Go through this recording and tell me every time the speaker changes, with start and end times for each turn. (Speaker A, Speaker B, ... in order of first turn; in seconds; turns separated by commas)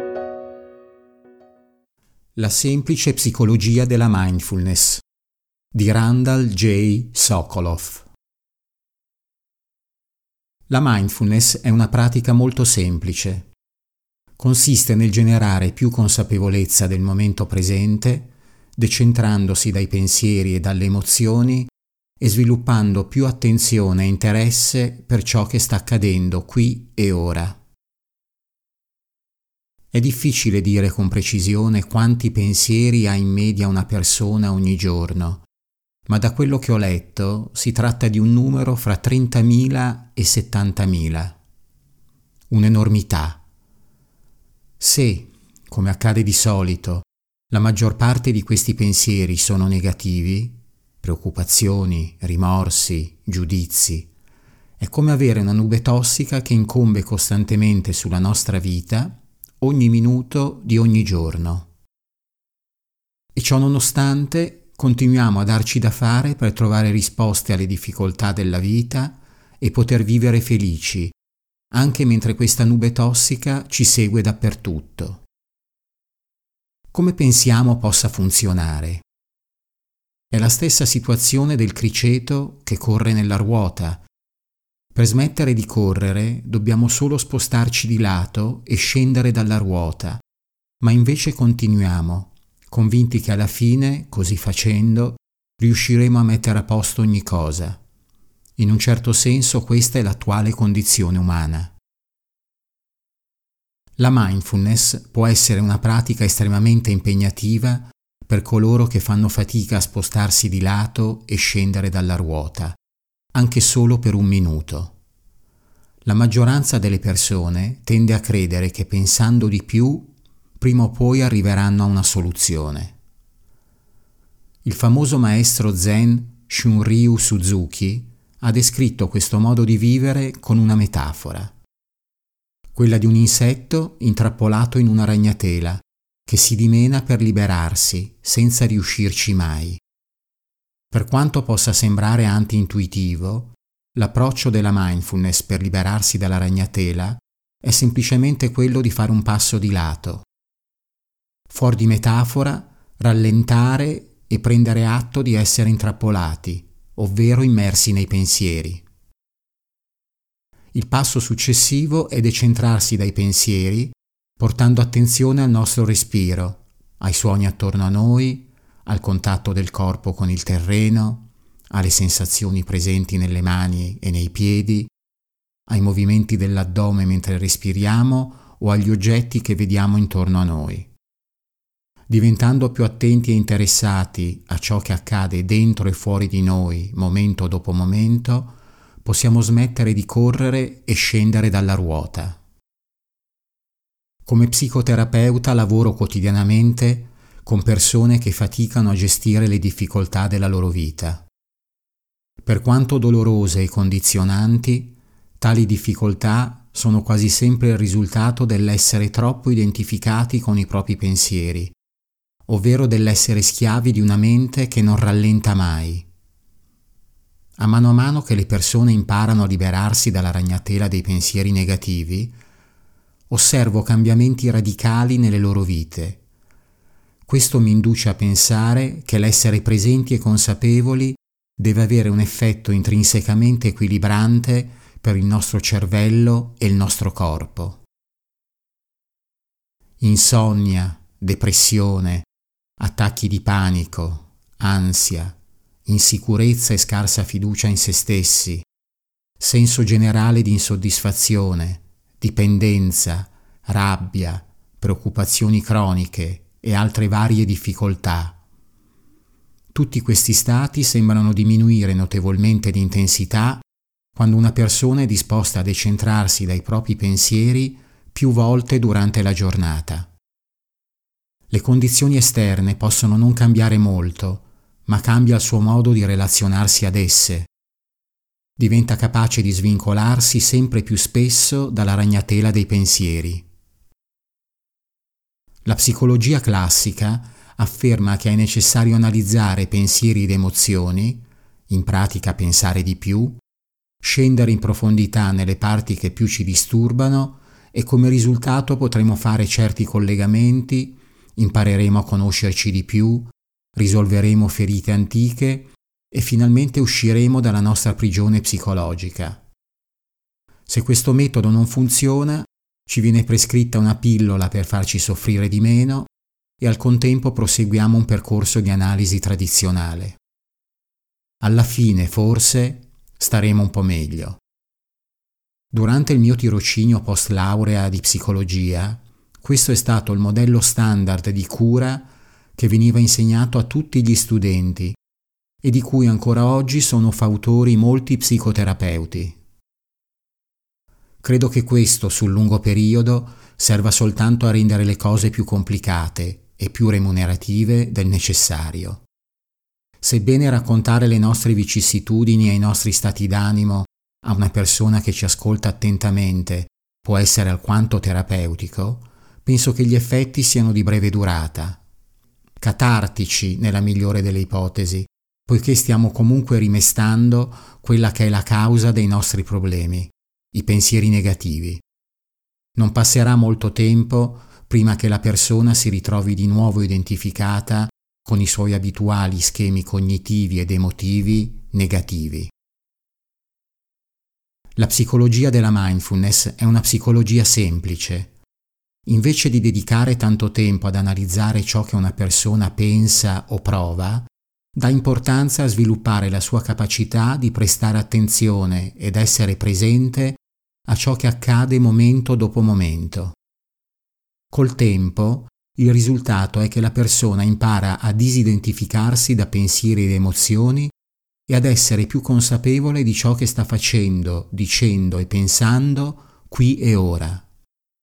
Speaker A: 2.4-5.0, Speaker A: 5.7-8.1, Speaker A: 10.7-13.5, Speaker A: 14.4-27.6, Speaker A: 29.9-35.5, Speaker A: 36.1-41.4, Speaker A: 42.5-43.4, Speaker A: 44.8-54.1, Speaker A: 54.8-61.7, Speaker A: 63.3-71.1, Speaker A: 71.7-75.2, Speaker A: 76.9-79.0, Speaker A: 80.3-84.0, Speaker A: 84.9-90.2, Speaker A: 90.8-97.8, Speaker A: 98.6-101.8, Speaker A: 104.0-112.8, Speaker A: 113.3-115.0, Speaker A: 116.0-123.0, Speaker A: 124.6-131.5, Speaker A: 132.7-139.8, Speaker A: 140.9-150.2, Speaker A: 151.5-158.8, Speaker A: 160.7-174.9, Speaker A: 175.7-180.9, Speaker A: 182.1-192.4, Speaker A: 194.2-201.3, Speaker A: 202.4-211.8, Speaker A: 212.5-216.1, Speaker A: 217.6-222.4, Speaker A: 223.3-226.2, Speaker A: 227.2-237.8, Speaker A: 240.0-242.3, Speaker A: 242.8-248.7, Speaker A: 249.4-258.4, Speaker A: 259.7-263.6, Speaker A: 264.1-270.1, Speaker A: 271.5-277.5, Speaker A: 278.6-283.5, Speaker A: 285.6-293.4, Speaker A: 294.0-309.4, Speaker A: 310.7-320.2, Speaker A: 321.4-324.4, Speaker A: 325.7-335.0, Speaker A: 335.6-339.4, Speaker A: 341.2-349.1, Speaker A: 350.0-361.8, Speaker A: 362.6-371.8, Speaker A: 372.8-382.5, Speaker A: 384.8-388.3, Speaker A: 389.1-403.4, Speaker A: 404.5-410.9, Speaker A: 411.5-417.5